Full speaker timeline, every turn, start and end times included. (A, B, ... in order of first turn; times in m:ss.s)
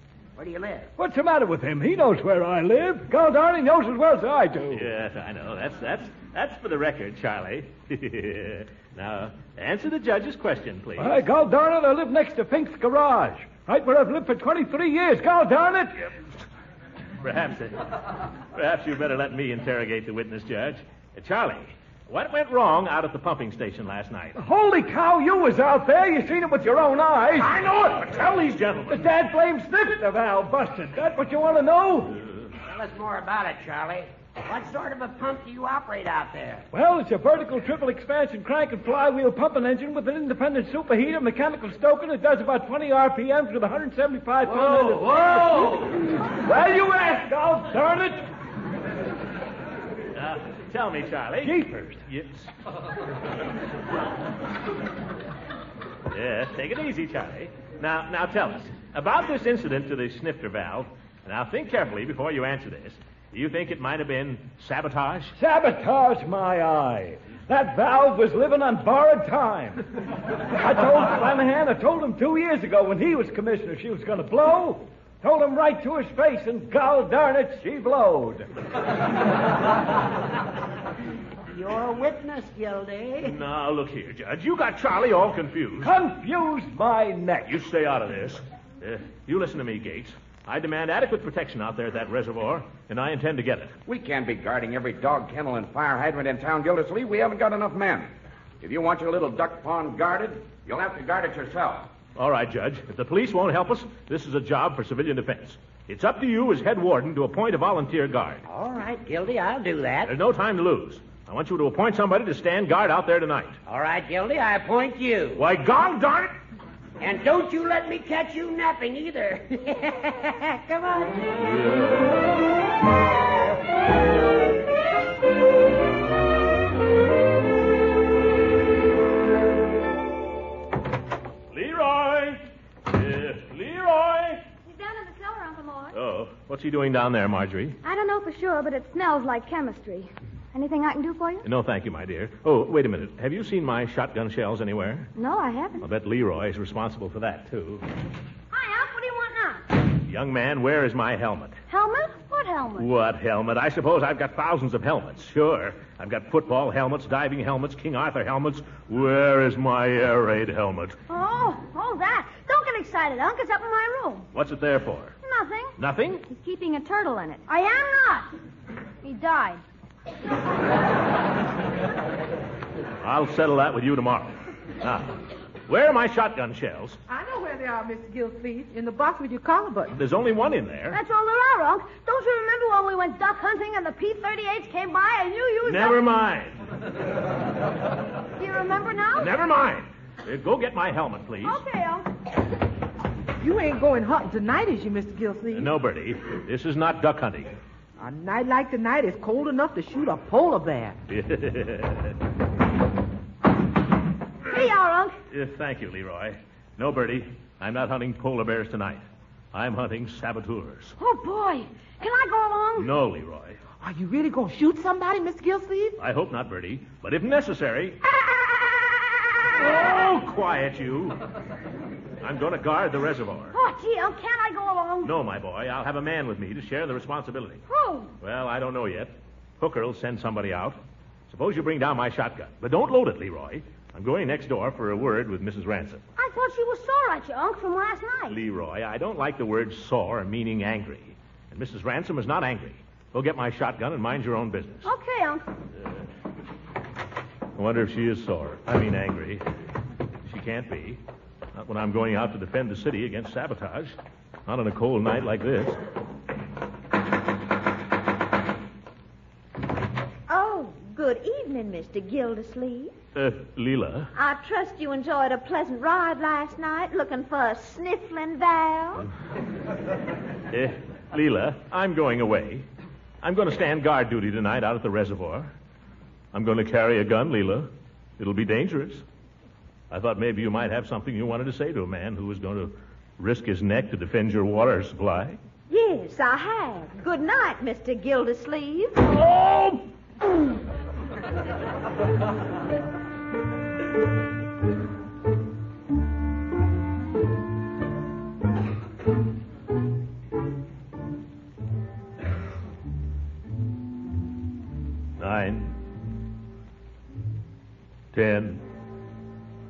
0:00.4-0:00.9 A
0:01.0-0:04.9 B
0:04.7-0:11.2 C
0:11.0-0:16.1 B
0:17.2-0:24.4 C
0:24.4-0:27.7 B
0:27.4-0:29.1 C
0:28.9-0:32.2 B
0:32.6-0:36.7 A
0:36.7-0:48.2 B
0:44.5-0:46.0 C
0:50.2-0:52.5 C
0:51.4-0:52.0 B
0:56.1-1:05.4 C
1:05.4-1:09.8 B
1:10.5-1:18.5 B
1:21.5-1:23.4 A
1:23.2-1:25.9 C
1:25.8-1:27.6 B
1:27.5-1:33.7 C
1:33.9-1:38.1 D
1:38.6-1:41.9 D
1:42.2-1:48.4 C
1:48.5-1:50.1 A
1:50.1-1:53.6 C
1:53.7-1:55.4 A
1:55.4-1:56.3 C
1:57.0-2:01.3 A
2:01.5-2:02.2 C
2:11.5-2:14.4 C
2:14.8-2:15.9 E
2:14.8-2:15.8 F
2:15.9-2:17.8 C
2:17.8-2:21.5 E
2:21.4-2:25.1 C
2:25.2-2:25.9 E
2:25.8-2:27.8 C
2:28.5-2:29.6 F
2:30.0-2:31.6 C
2:31.7-2:32.8 E
2:31.7-2:32.5 F
2:32.8-2:41.0 C
2:41.1-2:44.3 F
2:44.3-2:45.2 C
2:45.2-2:45.8 F
2:45.8-2:46.2 C
2:46.3-2:47.4 E
2:47.5-2:48.3 F
2:49.0-2:49.6 F
2:53.0-2:57.0 C
2:57.1-3:00.0 G
2:59.9-3:01.0 C
3:00.9-3:06.0 F
3:05.6-3:06.6 C
3:08.4-3:09.3 F
3:09.2-3:11.6 C
3:11.4-3:12.1 F
3:13.4-3:15.7 G
3:15.5-3:17.5 C
3:18.0-3:21.0 G
3:21.1-3:22.1 C
3:24.5-3:25.2 F
3:25.3-3:31.0 C
3:31.0-3:32.9 F
3:32.8-3:33.6 C
3:33.8-3:36.0 G
3:36.0-3:38.0 C
3:39.5-3:41.2 C
3:42.2-3:43.6 C
3:43.5-3:45.1 F
3:45.0-3:47.6 C
3:47.7-3:48.1 F
3:48.2-3:50.8 C
3:51.3-3:56.0 C
3:56.2-3:58.4 F
3:58.3-4:04.9 C
4:04.8-4:05.4 F
4:07.6-4:09.4 C
4:10.2-4:11.0 C
4:11.6-4:14.0 C
4:14.5-4:15.8 C
4:20.3-4:22.9 H
4:23.2-4:24.1 C
4:24.2-4:29.1 H
4:30.5-4:32.6 C
4:33.2-4:35.5 C
4:36.3-4:39.0 C
4:39.9-4:45.4 C
4:45.7-4:49.0 H
4:49.1-4:49.8 C
5:05.2-5:05.8 C
5:08.1-5:08.6 C